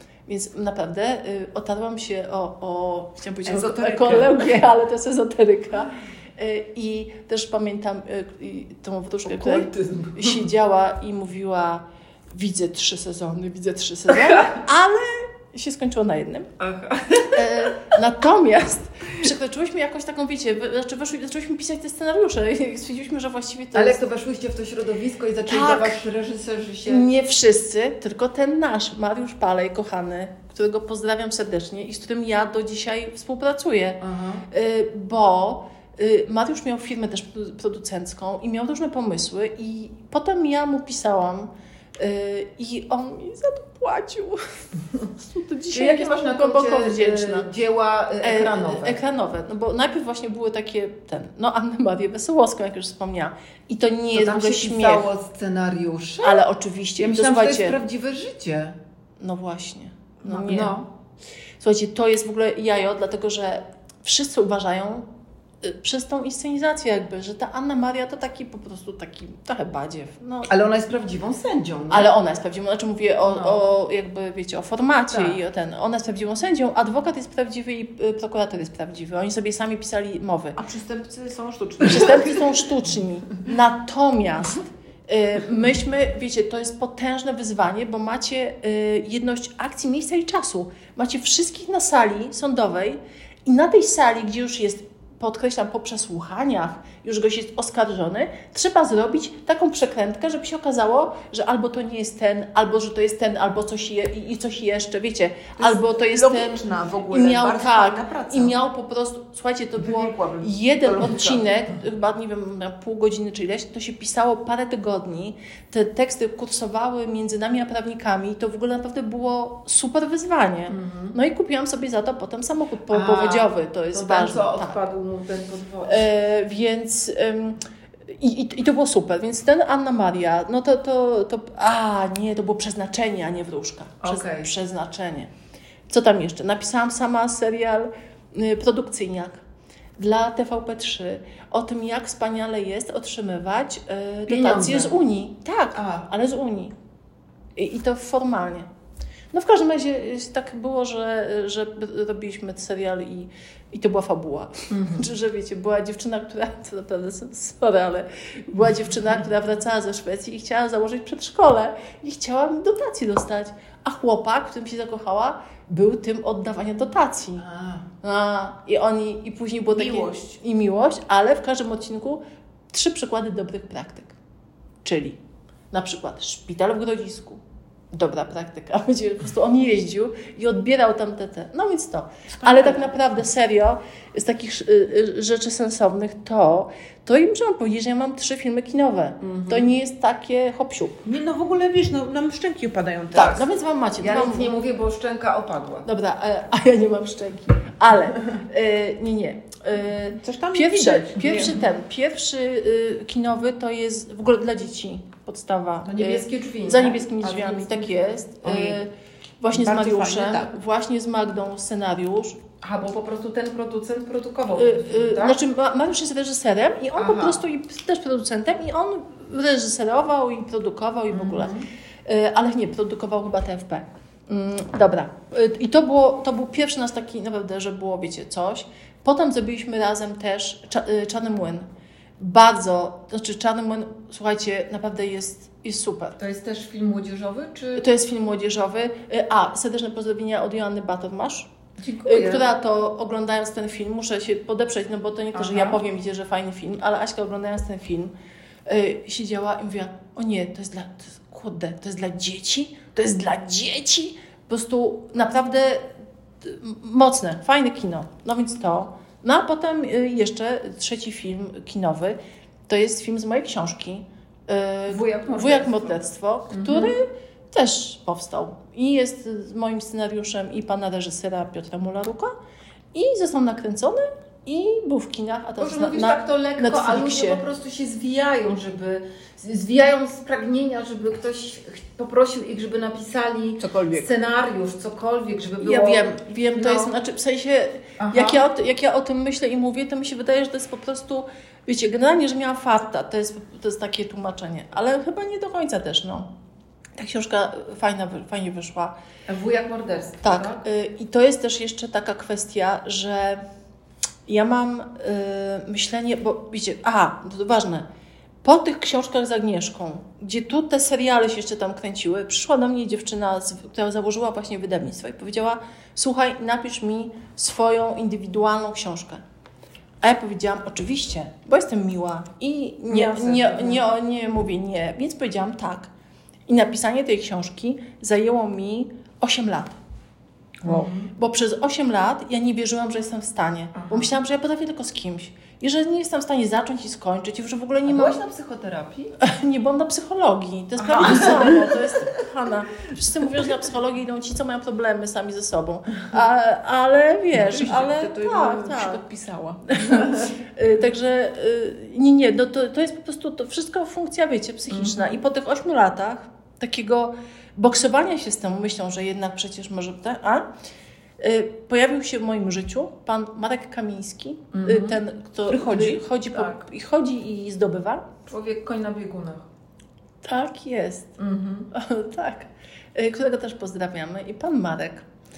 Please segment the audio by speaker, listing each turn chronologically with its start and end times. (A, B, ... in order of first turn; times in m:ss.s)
0:00.3-0:16.5 A
0:03.4-0:04.6 B
0:09.3-0:10.4 C
0:16.6-0:17.6 C
0:17.3-0:24.0 A
0:23.7-0:27.1 C
0:25.4-0:26.0 A
0:26.8-0:44.4 A
0:34.0-0:34.5 C
0:45.2-0:47.5 A
0:45.7-0:49.0 C
0:48.2-0:55.1 A
0:54.1-0:56.4 C
0:56.2-0:57.8 A
0:57.0-0:58.8 C
0:59.2-1:00.8 A
1:00.2-1:00.9 C
1:01.6-1:05.1 A
1:05.6-1:10.5 A
1:10.5-1:12.1 C
1:11.9-1:20.6 A
1:13.3-1:13.6 C
1:15.1-1:15.4 C
1:20.6-1:22.4 B
1:21.8-2:04.8 A
1:45.6-1:48.5 B
1:49.8-1:51.4 B
2:00.7-2:01.1 C
2:02.9-2:06.1 C
2:05.8-2:15.3 A
2:14.0-2:14.5 C
2:15.9-2:19.4 A
2:20.0-2:26.7 A
2:24.3-2:25.0 C
2:25.8-2:26.0 C
2:27.6-2:28.7 A
2:29.3-2:47.4 A
2:34.7-2:35.0 C
2:47.4-2:47.8 C
2:48.0-2:54.1 A
2:49.7-2:50.4 B
2:54.8-2:55.2 A
2:55.7-2:57.4 A
2:57.9-3:11.0 A
3:02.4-3:02.8 B
3:09.2-3:09.7 C
3:11.0-3:13.4 B
3:13.1-3:14.6 A
3:14.0-3:15.9 C
3:15.8-3:32.4 A
3:20.2-3:21.5 B
3:21.2-3:21.6 C
3:25.8-3:28.0 C
3:28.4-3:28.8 B
3:29.5-3:30.5 B
3:32.6-3:35.4 C
3:34.6-3:51.7 A
3:36.9-3:37.4 C
3:41.1-3:41.7 C
3:52.2-3:56.2 A
3:56.2-3:57.8 C
3:57.8-4:01.5 A
4:01.8-4:02.4 C
4:02.0-4:08.1 A
4:05.3-4:05.8 C
4:08.6-4:15.9 A
4:16.4-4:32.3 A
4:24.9-4:26.0 C
4:26.5-4:26.9 C
4:32.9-4:37.4 A
4:35.6-4:46.9 C
4:43.6-4:44.1 B
4:45.6-4:56.3 A
4:48.0-4:48.4 C
4:57.0-4:59.0 A
4:59.3-5:00.6 C
5:00.2-5:03.4 A
5:04.3-5:07.9 A
5:08.4-5:19.2 A
5:20.0-5:25.9 A
5:22.9-5:23.8 B
5:26.5-5:29.8 A
5:30.6-5:38.2 A
5:30.6-5:31.1 C
5:33.7-5:34.1 C
5:37.8-5:39.1 C
5:39.2-5:49.0 A
5:40.8-5:41.9 C
5:47.3-5:50.2 B
5:49.7-6:00.5 A
5:54.7-5:55.2 C
6:01.2-6:08.1 A
6:04.5-6:05.0 C
6:05.5-6:06.0 B
6:08.3-6:09.4 C
6:10.2-6:11.2 A
6:11.2-6:11.7 C
6:11.7-6:15.0 A